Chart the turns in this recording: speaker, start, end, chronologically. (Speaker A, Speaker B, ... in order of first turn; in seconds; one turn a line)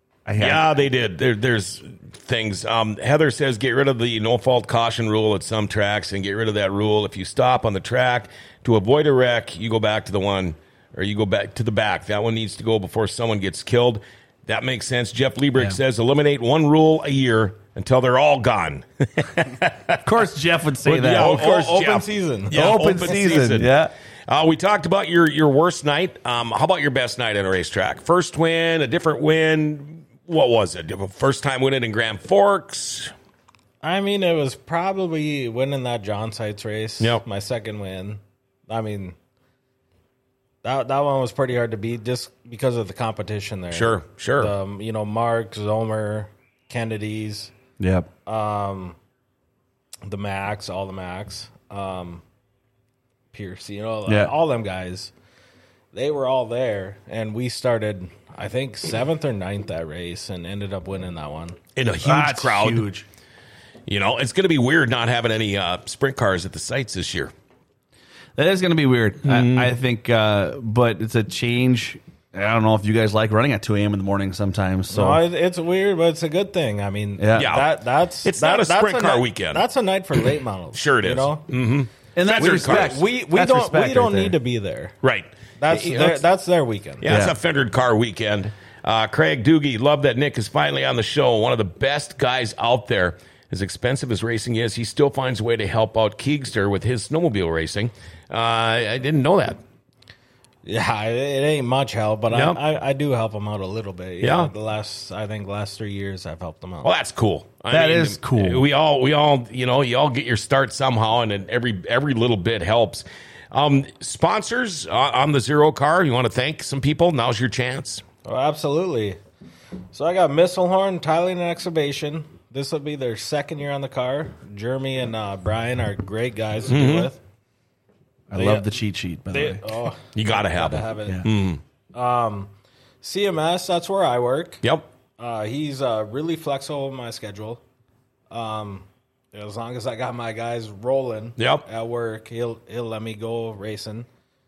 Speaker A: 0.2-0.7
Speaker B: 0.4-20.0
Speaker A: 20.0-21.4
Speaker C: 20.8-23.4
Speaker B: 21.0-33.1
Speaker A: 22.5-23.9
Speaker C: 33.8-39.1
Speaker C: 40.6-47.5
Speaker B: 43.7-44.5
Speaker A: 47.8-48.1
Speaker C: 48.2-49.0
Speaker C: 50.0-52.2
Speaker C: 53.3-55.1
Speaker A: 54.0-54.3
Speaker C: 55.9-61.6
Speaker B: 61.8-62.9
Speaker A: 62.0-63.0
Speaker B: 63.9-67.3
Speaker A: 68.3-75.2
Speaker B: 69.2-69.7
Speaker C: 74.9-81.5
Speaker A: 77.2-77.5
Speaker B: 77.3-79.6
Speaker B: 80.7-83.0
Speaker A: 82.2-84.4
Speaker C: 82.3-84.9
Speaker B: 85.0-86.2
Speaker C: 85.6-87.0
Speaker B: 87.0-99.6
Speaker A: 87.0-87.3
Speaker C: 100.6-106.9
Speaker B: 102.3-102.6
Speaker B: 104.2-104.5
Speaker B: 106.8-118.0
Speaker A: 107.7-108.7
Speaker C: 118.2-119.2
Speaker C: 119.9-127.2
Speaker B: 126.7-127.1
Speaker A: 128.3-129.6
Speaker C: 128.3-128.7
Speaker C: 129.3-131.2
Speaker B: 130.1-131.6
Speaker C: 131.9-134.6
Speaker C: 135.2-137.6
Speaker C: 138.3-144.1
Speaker B: 141.4-141.6